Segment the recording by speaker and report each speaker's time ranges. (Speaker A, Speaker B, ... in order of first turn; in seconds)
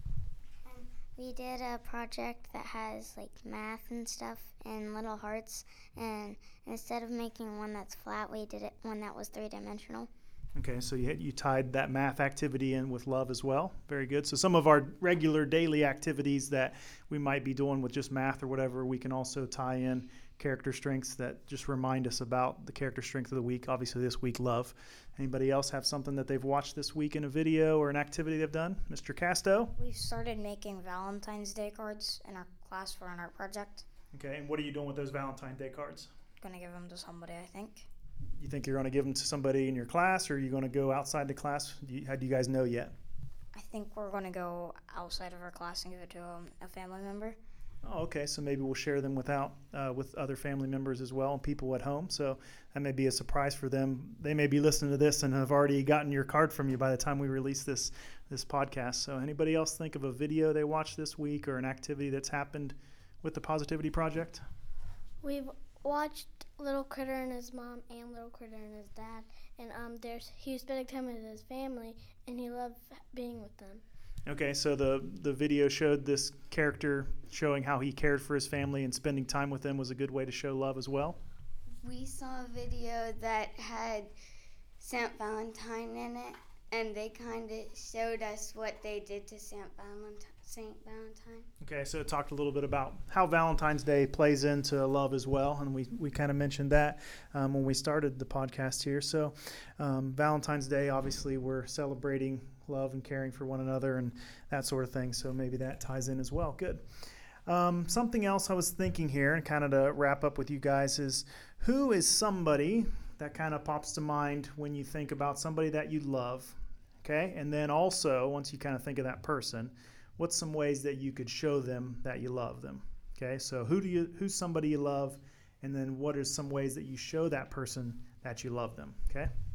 Speaker A: 0.7-10.1
Speaker B: 10.6-29.7, 34.1-36.1, 38.4-42.9, 47.8-64.4, 74.3-81.2, 91.6-106.8, 107.5-129.3
Speaker C: 29.8-33.9, 36.4-37.9, 43.5-47.4
Speaker D: 65.2-73.8
Speaker E: 81.8-84.1, 84.8-91.5